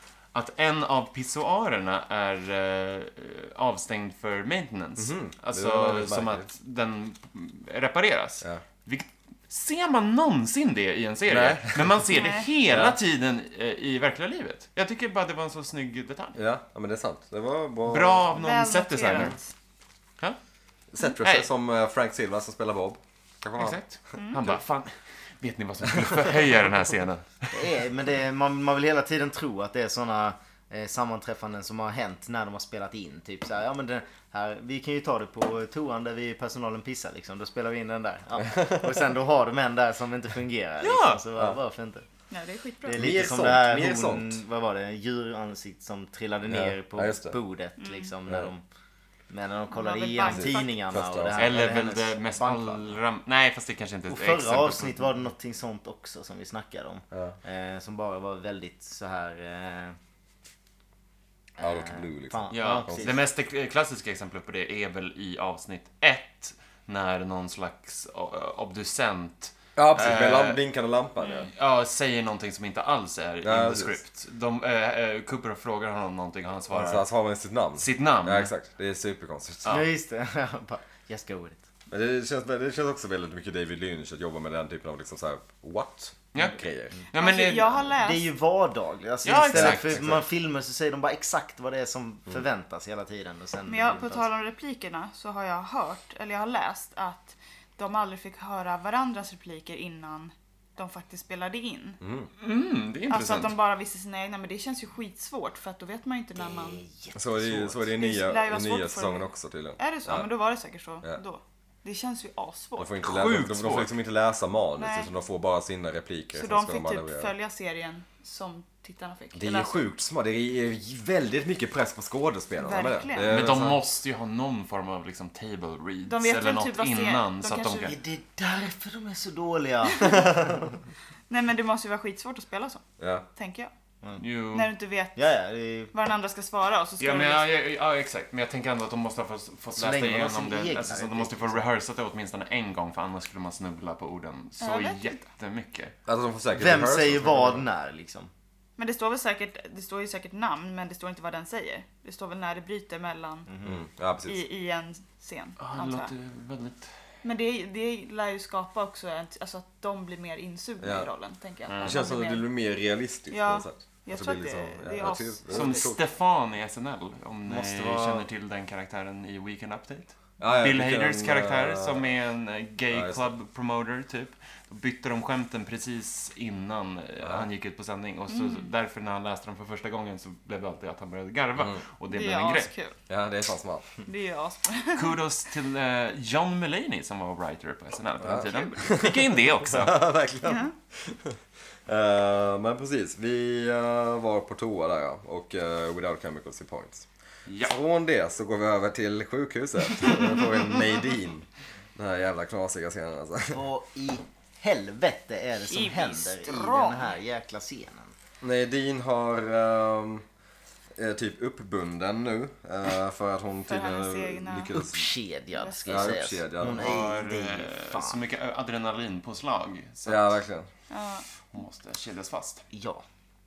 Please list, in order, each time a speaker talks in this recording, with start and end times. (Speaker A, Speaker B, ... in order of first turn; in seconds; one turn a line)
Speaker A: 0.3-16.4
Speaker B: 5.0-6.5
Speaker B: 11.3-12.0
Speaker C: 12.1-12.5
Speaker B: 12.6-13.0
Speaker B: 16.4-18.3
Speaker A: 17.9-19.4
Speaker C: 18.3-19.5
Speaker B: 20.9-23.8
Speaker A: 23.6-27.6
Speaker C: 24.1-24.4
Speaker D: 27.5-42.0
Speaker A: 40.8-41.2
Speaker C: 42.3-43.1
Speaker D: 42.8-48.6
Speaker B: 43.0-44.4
Speaker B: 46.5-47.4
Speaker C: 47.8-48.1
Speaker D: 49.3-52.9
Speaker C: 49.7-50.7
Speaker B: 50.2-51.6
Speaker A: 51.3-55.1
Speaker D: 54.1-60.0
Speaker D: 61.6-63.2
Speaker B: 61.6-63.1
Speaker A: 62.5-70.6
Speaker B: 69.8-71.5
Speaker A: 71.4-77.0
Speaker B: 73.4-74.0
Speaker B: 76.7-79.8
Speaker A: 77.8-78.5
Speaker D: 79.7-81.6
Speaker B: 81.9-87.0
Speaker A: 86.3-86.6
Speaker A: 87.1-87.9
Speaker C: 87.1-88.3
Speaker D: 87.9-94.3
Speaker A: 89.2-90.1
Speaker B: 89.5-90.2
Speaker C: 93.7-102.0
Speaker B: 102.0-102.3
Speaker A: 102.4-103.5
Speaker C: 103.1-106.8
Speaker D: 106.4-107.8
Speaker B: 107.1-110.3
Speaker C: 108.0-109.2
Speaker C: 109.8-112.9
Speaker B: 112.8-117.3
Speaker A: 113.0-113.9
Speaker C: 114.8-115.1
Speaker C: 116.3-119.8
Speaker B: 119.3-123.8
Speaker C: 122.6-123.3
Speaker A: 123.2-128.0
Speaker C: 126.1-128.0
Speaker D: 127.8-130.8
Speaker C: 129.8-130.3
Speaker C: 131.3-132.8
Speaker B: 133.0-133.2
Speaker C: 133.4-133.7
Speaker A: 134.2-134.7
Speaker C: 134.5-135.2
Speaker D: 135.2-135.9
Speaker C: 135.9-137.5
Speaker A: 137.0-145.9
Speaker D: 139.8-141.7
Speaker C: 144.6-145.2
Speaker B: 146.1-147.7
Speaker D: 146.5-148.3
Speaker C: 148.8-153.5
Speaker D: 153.5-153.8
Speaker B: 153.6-154.4
Speaker C: 154.2-156.1
Speaker A: 155.6-156.9
Speaker C: 157.2-162.4
Speaker B: 160.8-161.1
Speaker A: 161.7-162.0
Speaker B: 161.8-166.0
Speaker C: 163.3-165.8
Speaker A: 165.5-182.7
Speaker D: 167.5-168.2
Speaker B: 170.4-172.1
Speaker B: 172.9-173.3
Speaker C: 178.3-178.7
Speaker B: 181.6-181.8
Speaker C: 182.1-183.0
Speaker B: 183.1-183.9
Speaker C: 184.1-185.2
Speaker A: 184.9-190.0
Speaker B: 188.2-197.1
Speaker C: 190.4-190.7
Speaker A: 197.5-197.8
Speaker B: 197.6-203.6
Speaker D: 203.5-208.1
Speaker C: 205.7-207.1
Speaker B: 208.4-210.2
Speaker B: 210.9-215.1
Speaker C: 213.7-214.7
Speaker D: 214.7-218.2
Speaker C: 215.5-216.1
Speaker B: 215.9-217.1
Speaker A: 216.7-220.4
Speaker B: 220.1-220.7
Speaker C: 220.9-221.2
Speaker A: 221.5-222.6
Speaker D: 222.7-223.0